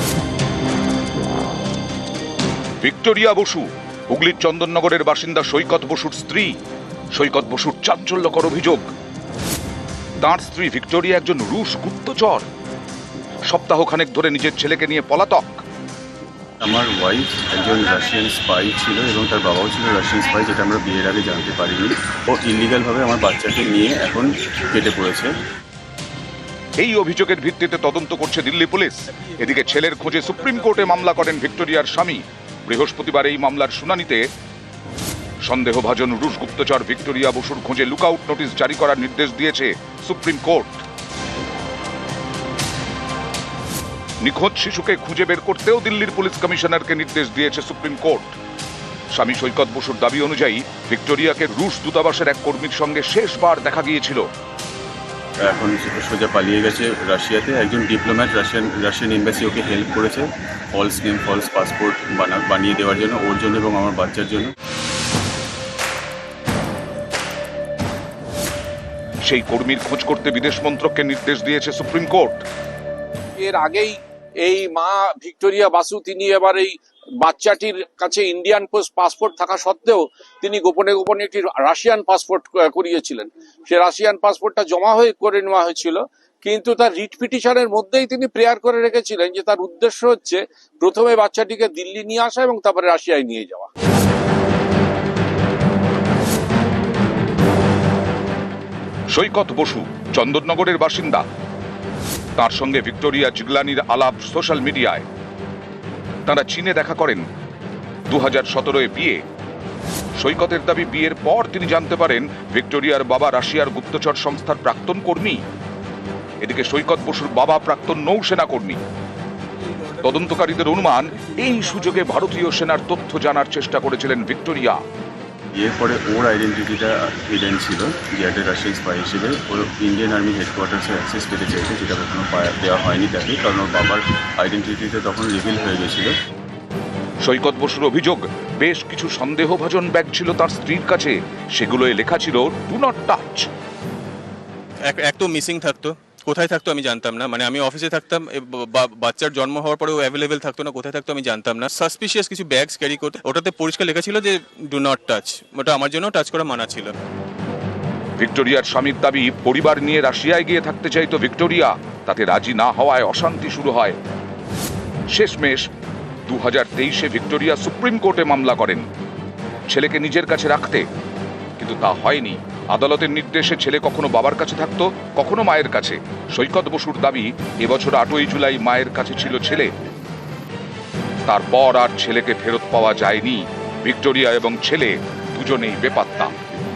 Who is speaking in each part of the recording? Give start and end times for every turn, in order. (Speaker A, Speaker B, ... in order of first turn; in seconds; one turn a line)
Speaker A: 2.8-6.5
Speaker A: 7.1-8.9
Speaker A: 10.2-12.5
Speaker A: 13.5-15.6
Speaker B: 16.6-25.3
Speaker A: 26.8-34.2
Speaker A: 35.4-40.8
Speaker A: 44.2-48.4
Speaker A: 49.1-54.2
Speaker B: 55.5-64.5
Speaker A: 69.2-72.4
Speaker C: 73.4-93.7
Speaker A: 99.1-101.2
Speaker A: 102.4-105.0
Speaker A: 106.3-107.2
Speaker A: 108.1-109.2
Speaker A: 110.2-115.4
Speaker A: 116.4-118.8
Speaker A: 120.0-124.8
Speaker B: 125.5-136.2
Speaker A: 137.2-143.5
Speaker D: 144.8-156.9
Speaker A: 158.2-164.0
Speaker A: 165.1-165.6
Speaker A: 166.3-168.8
Speaker A: 169.7-170.8
Speaker A: 171.6-179.7
Speaker A: 181.3-186.3